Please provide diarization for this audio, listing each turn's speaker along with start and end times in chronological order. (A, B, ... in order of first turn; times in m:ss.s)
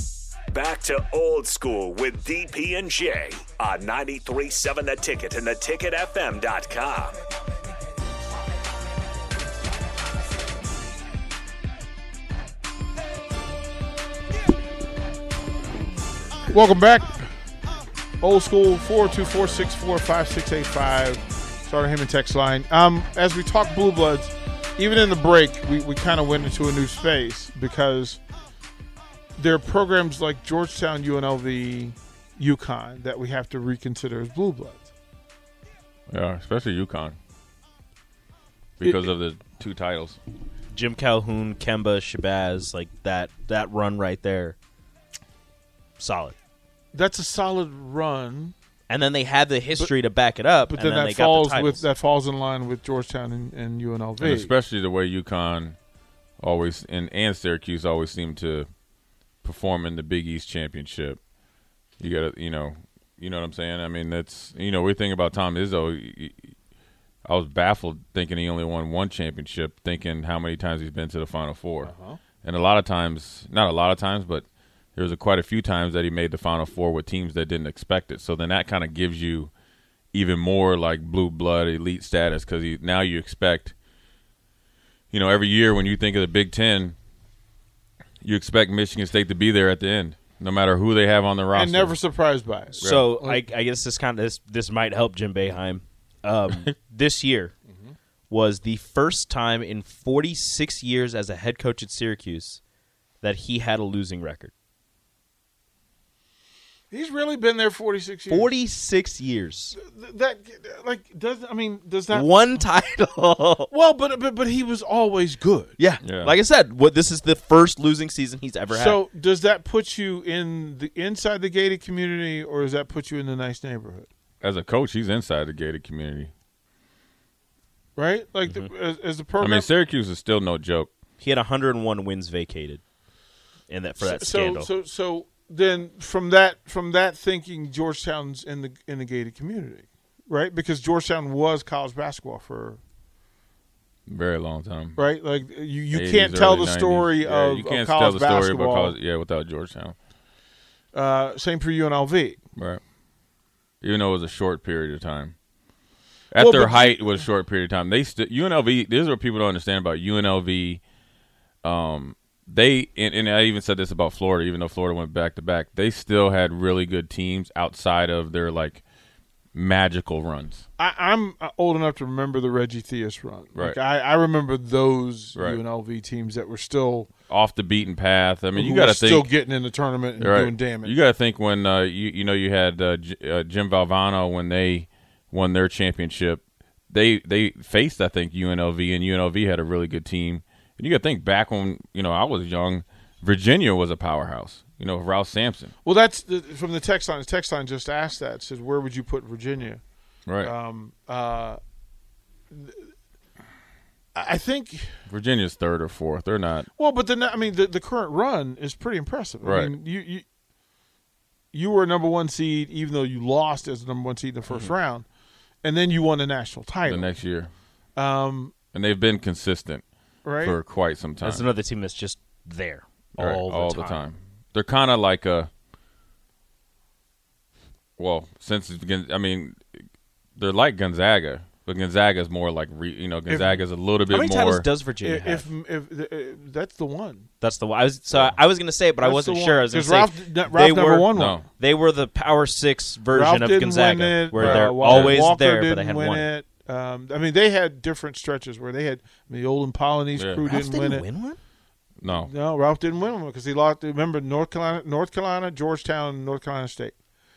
0:00.5-0:07.2 A
0:16.5-0:17.3 B
0:18.2-0:28.2 B
0:29.4-0:34.9 B
0:36.1-0:37.2 C
0:38.8-0:40.2 C
0:40.7-0:44.6 D
0:46.0-0:46.4 D
0:46.9-0:48.5 B
0:48.9-0:51.9 D
0:50.7-0:54.5 B
0:54.2-0:55.8 C
0:56.4-0:58.7 C
0:59.4-1:01.2 C
1:02.0-1:06.5 C
1:07.2-1:11.9 C
1:11.8-1:12.2 B
1:12.4-1:19.5 C
1:20.1-1:23.8 C
1:25.1-1:27.0 C
1:28.2-1:32.0 C
1:31.5-1:33.5 B
1:32.8-1:37.5 D
1:32.8-1:33.1 C
1:37.7-1:38.0 B
1:38.3-1:42.6 D
1:43.2-1:44.5 D
1:46.9-1:48.6 B
1:48.3-1:49.8 D
1:49.8-1:52.3 B
1:52.1-1:53.7 D
1:53.7-1:55.8 B
1:55.8-1:59.0 D
1:56.0-1:56.4 C
1:58.7-2:04.1 B
2:04.4-2:06.3 C
2:08.0-2:09.7 B
2:09.4-2:10.9 C
2:11.2-2:12.8 D
2:13.7-2:14.7 D
2:14.0-2:22.8 B
2:24.1-2:25.0 C
2:25.0-2:29.0 B
2:25.9-2:30.0 C
2:30.9-2:32.4 B
2:32.6-2:32.8 C
2:33.8-2:35.4 C
2:36.3-2:40.8 C
2:36.4-2:37.2 B
2:41.6-2:48.8 C
2:49.5-2:50.7 C
2:50.8-2:57.1 B
2:57.3-2:59.3 C
2:58.6-3:01.0 B
3:00.2-3:15.7 C
3:15.8-3:19.8 B
3:20.3-3:20.5 C
3:20.4-3:21.6 B
3:22.5-3:22.9 B
3:24.2-3:24.9 B
3:25.1-3:26.7 C
3:26.8-3:30.2 B
3:29.4-3:29.7 C
3:31.5-3:35.1 B
3:34.5-3:34.7 D
3:35.6-3:37.1 B
3:36.8-3:37.5 C
3:38.0-3:38.6 B
3:38.7-3:39.8 C
3:40.2-3:40.6 B
3:40.4-3:41.5 C
3:41.2-3:44.0 D
3:43.2-3:45.5 C
3:48.0-3:49.8 C
3:50.4-3:54.7 C
3:53.3-3:53.6 B
3:54.1-3:55.5 D
3:55.0-3:57.3 B
3:57.4-4:06.3 D
3:59.0-4:01.4 B
4:01.1-4:01.5 C
4:03.1-4:11.1 B
4:04.4-4:05.2 C
4:10.2-4:10.5 C
4:10.5-4:11.4 D
4:12.0-4:12.3 C
4:12.1-4:16.9 B